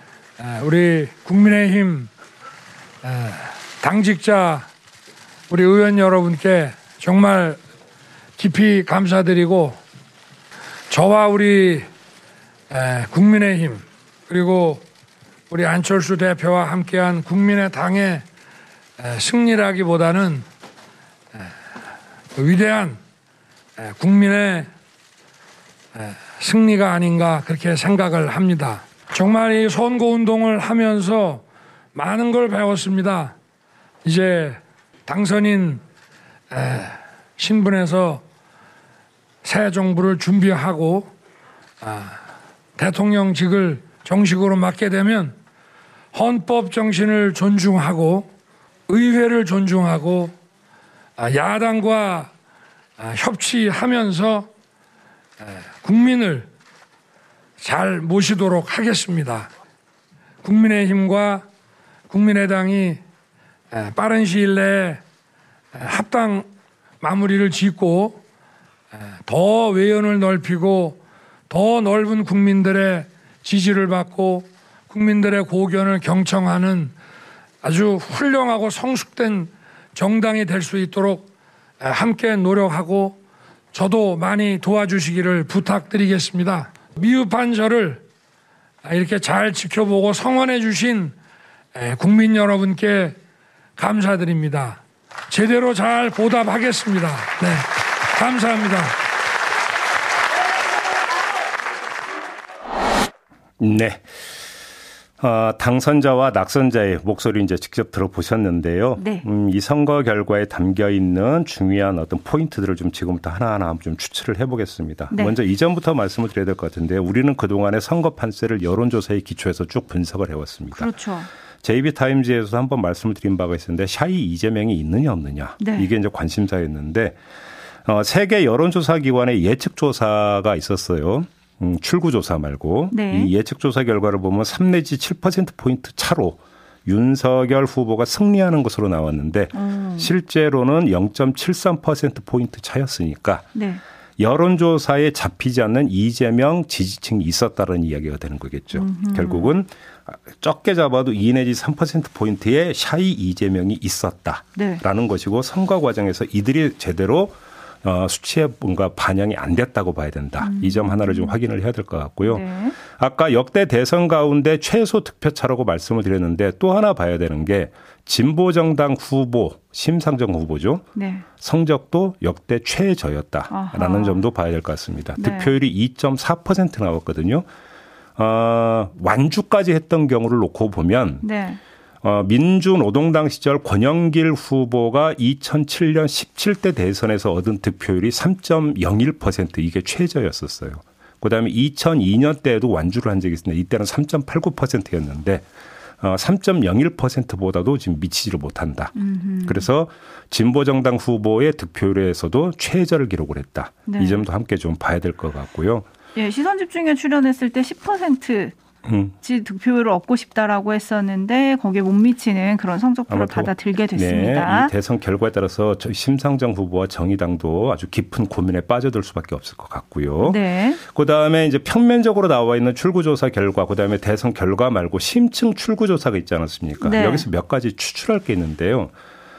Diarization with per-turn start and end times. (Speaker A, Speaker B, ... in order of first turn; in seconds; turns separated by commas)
Speaker A: 0.4-2.1, Speaker A: 3.0-4.7, Speaker A: 5.5-7.6, Speaker A: 8.4-9.8, Speaker A: 10.9-11.9, Speaker A: 12.7-14.8, Speaker A: 15.5-18.2, Speaker A: 19.0-20.4, Speaker A: 22.4-23.0, Speaker A: 23.8-24.7, Speaker A: 25.9-31.4, Speaker A: 31.9-33.3, Speaker A: 34.0-35.8, Speaker A: 36.5-38.2, Speaker A: 39.4-41.1, Speaker A: 41.8-42.2, Speaker A: 42.8-45.4, Speaker A: 46.1-48.3, Speaker A: 48.9-50.3, Speaker A: 51.2-52.3, Speaker A: 53.0-54.5, Speaker A: 55.5-56.5, Speaker A: 57.6-59.5, Speaker A: 60.4-61.4, Speaker A: 62.1-63.0, Speaker A: 63.7-65.0, Speaker A: 65.7-66.5, Speaker A: 67.0-68.2, Speaker A: 69.2-76.9, Speaker A: 77.6-81.3, Speaker A: 81.8-83.2, Speaker A: 83.7-88.0, Speaker A: 88.8-91.1, Speaker A: 91.7-93.2, Speaker A: 93.8-99.0, Speaker B: 103.6-104.0, Speaker B: 105.2-120.9, Speaker C: 109.0-109.2, Speaker C: 120.7-121.3, Speaker B: 121.6-127.2, Speaker C: 125.6-125.9, Speaker B: 127.8-143.5, Speaker C: 132.9-133.3, Speaker C: 139.5-140.1, Speaker C: 143.5-143.8, Speaker B: 144.2-170.8, Speaker C: 148.7-149.5, Speaker C: 154.6-154.8, Speaker C: 160.4-161.3, Speaker C: 162.2-162.8, Speaker C: 170.9-171.2, Speaker B: 171.4-177.4, Speaker C: 173.5-174.2, Speaker C: 175.2-175.5, Speaker B: 178.2-181.2, Speaker C: 181.2-181.6, Speaker B: 182.0-195.4, Speaker B: 196.0-205.8, Speaker C: 198.9-199.6, Speaker C: 203.9-204.2, Speaker C: 206.1-208.5, Speaker B: 208.8-209.1, Speaker C: 209.2-214.7, Speaker B: 213.1-228.9, Speaker C: 220.2-220.8, Speaker C: 226.8-227.2